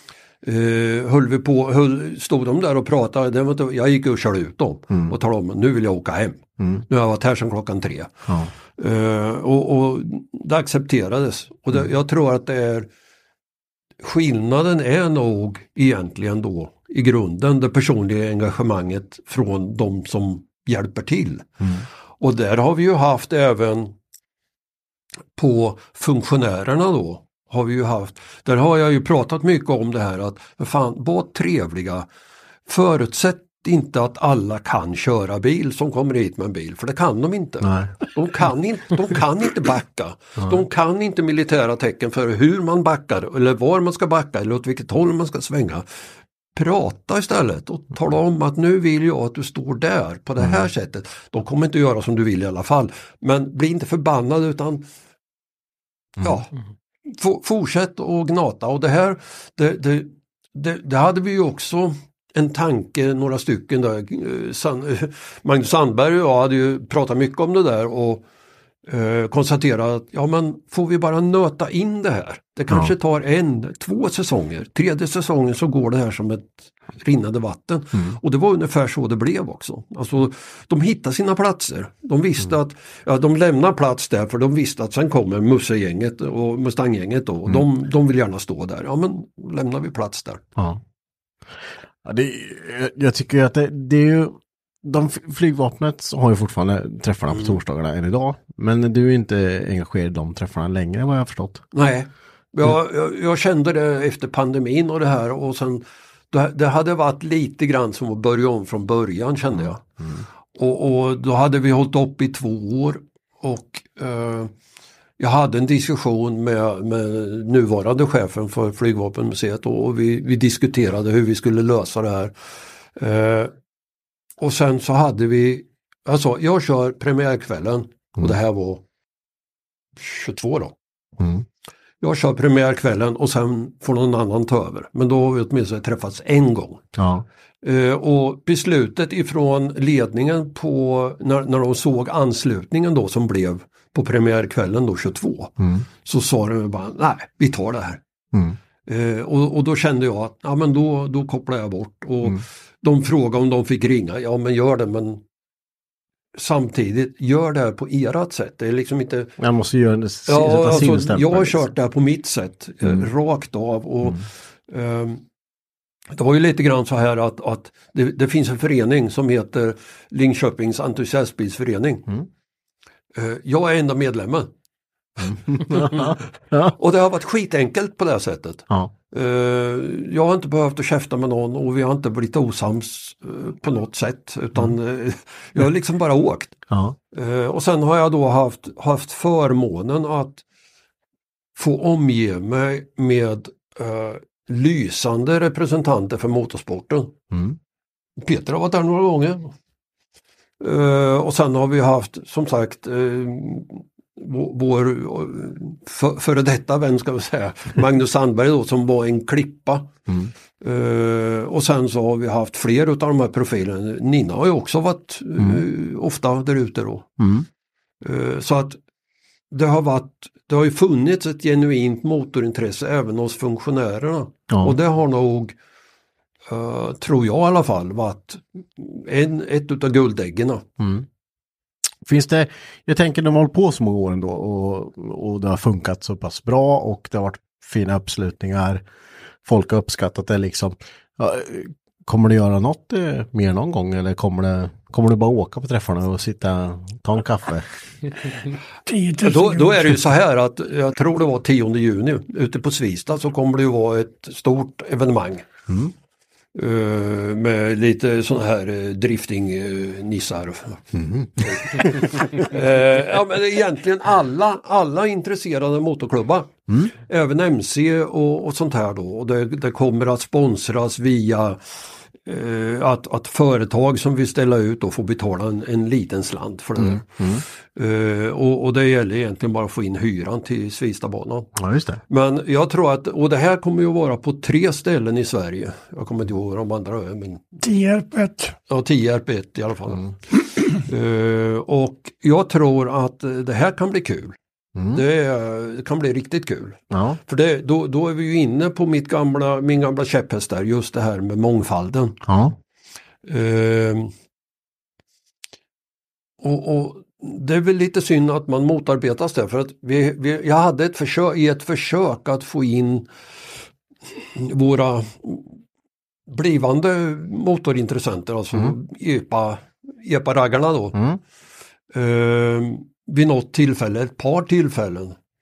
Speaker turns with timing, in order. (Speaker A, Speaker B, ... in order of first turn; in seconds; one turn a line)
Speaker A: 0.4-8.2
Speaker B: 4.9-5.2
Speaker B: 6.6-6.8
Speaker B: 8.3-8.5
Speaker A: 8.8-12.9
Speaker A: 14.0-21.5
Speaker A: 22.2-23.9
Speaker A: 25.4-32.1
Speaker A: 32.7-45.9
Speaker B: 37.6-37.9
Speaker A: 46.5-54.8
Speaker B: 50.4-50.7
Speaker B: 56.2-56.4
Speaker A: 56.2-56.5
Speaker A: 57.0-68.2
Speaker A: 68.9-90.4
Speaker B: 90.5-90.8
Speaker B: 92.0-101.7
Speaker A: 97.3-97.6
Speaker A: 101.7-109.8
Speaker B: 109.6-110.2
Speaker A: 110.5-114.5
Speaker A: 115.2-122.3
Speaker A: 123.0-123.5
Speaker A: 124.4-128.8
Speaker A: 129.9-130.7
Speaker B: 131.2-131.4
Speaker A: 132.0-136.8
Speaker B: 136.9-137.2
Speaker A: 137.6-145.5
Speaker B: 145.6-145.9
Speaker A: 146.0-148.0
Speaker B: 148.3-148.6
Speaker A: 148.9-155.2
Speaker A: 156.3-159.3
Speaker B: 159.4-161.7
Speaker A: 160.3-165.2
Speaker A: 166.1-172.1
Speaker A: 173.1-174.5
Speaker A: 175.2-186.6
Speaker B: 175.2-176.8
Speaker B: 186.7-186.9
Speaker A: 187.1-190.4
Speaker A: 191.6-197.1
Speaker B: 197.3-197.6
Speaker A: 198.2-199.5
Speaker A: 200.6-209.9
Speaker A: 210.6-217.1
Speaker B: 217.2-217.5
Speaker A: 218.0-218.8
Speaker A: 219.5-225.5
Speaker B: 224.5-224.8
Speaker A: 226.5-230.6
Speaker B: 230.8-231.1
Speaker B: 232.1-238.8
Speaker B: 239.4-247.7
Speaker C: 248.9-249.9
Speaker A: 249.2-255.4
Speaker B: 255.7-255.9
Speaker A: 256.5-260.8
Speaker B: 260.9-262.1
Speaker A: 261.4-271.6
Speaker A: 272.2-277.2
Speaker B: 276.8-277.4
Speaker A: 277.7-281.5
Speaker B: 281.6-282.0
Speaker A: 282.1-287.4
Speaker C: 287.6-288.5
Speaker A: 288.7-294.4
Speaker B: 294.7-295.0
Speaker A: 294.9-302.2
Speaker B: 296.9-297.2
Speaker B: 302.2-302.6
Speaker A: 303.2-304.1
Speaker A: 306.4-313.1
Speaker A: 314.2-315.5
Speaker A: 316.3-321.0
Speaker B: 320.9-321.2
Speaker A: 321.9-325.1